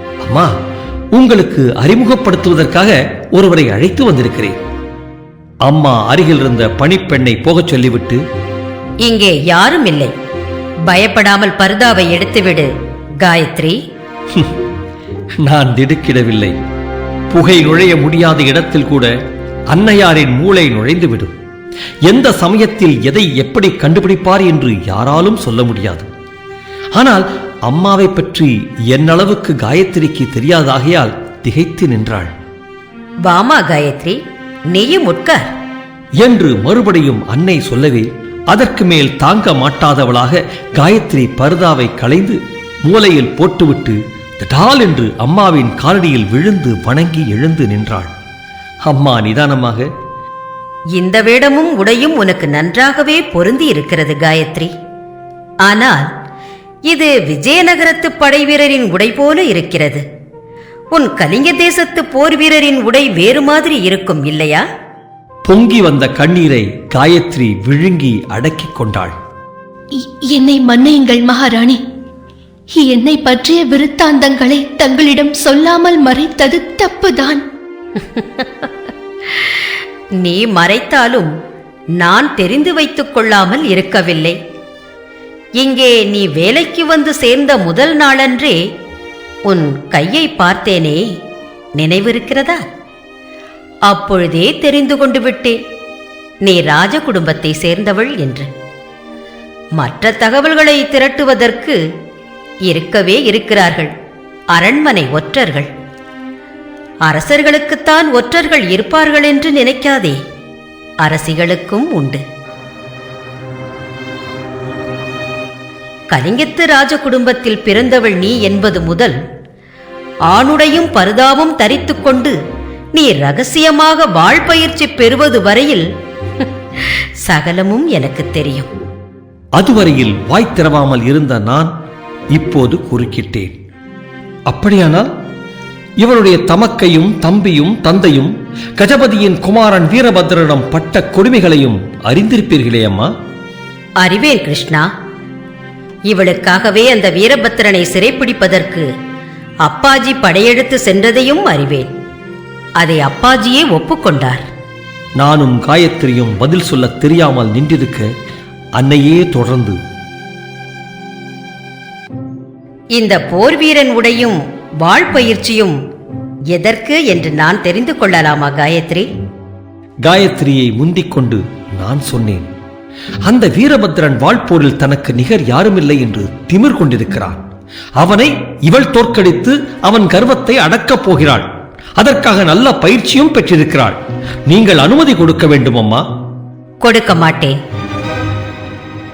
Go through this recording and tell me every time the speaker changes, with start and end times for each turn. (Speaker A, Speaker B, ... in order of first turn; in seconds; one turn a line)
Speaker A: 0.2-0.5
Speaker A: 1.1-4.6
Speaker A: 5.7-8.2
Speaker B: 9.0-10.1
Speaker B: 10.9-12.7
Speaker B: 13.2-13.8
Speaker A: 15.4-16.6
Speaker A: 17.3-19.1
Speaker A: 19.7-21.4
Speaker A: 22.1-26.1
Speaker A: 27.0-32.3
Speaker B: 33.2-34.2
Speaker B: 34.7-35.5
Speaker A: 36.2-48.1
Speaker A: 48.9-49.9
Speaker B: 51.0-54.7
Speaker B: 55.7-56.1
Speaker B: 56.9-60.0
Speaker B: 60.9-64.6
Speaker A: 65.5-69.2
Speaker C: 70.0-71.8
Speaker C: 72.8-77.4
Speaker B: 78.0-78.5
Speaker B: 80.2-81.3
Speaker B: 82.0-84.4
Speaker B: 85.6-88.6
Speaker B: 89.5-91.0
Speaker B: 91.8-92.6
Speaker B: 93.9-95.6
Speaker B: 96.5-98.5
Speaker B: 99.8-101.8
Speaker B: 102.7-103.9
Speaker B: 104.5-105.7
Speaker B: 107.1-110.2
Speaker B: 111.0-112.2
Speaker B: 116.1-119.2
Speaker B: 120.3-122.4
Speaker B: 123.0-125.9
Speaker B: 126.4-128.7
Speaker A: 129.6-131.7
Speaker A: 132.3-133.5
Speaker A: 134.5-135.1
Speaker A: 136.0-143.1
Speaker B: 144.0-144.9
Speaker B: 146.1-148.9
Speaker B: 149.7-151.9
Speaker B: 152.8-154.5
Speaker A: 155.2-158.1
Speaker A: 158.8-159.8
Speaker B: 163.0-165.8
Speaker B: 166.5-169.1
Speaker A: 170.1-172.5
Speaker A: 173.2-177.4
Speaker A: 178.0-184.0
Speaker A: 184.5-186.0
Speaker B: 186.8-187.6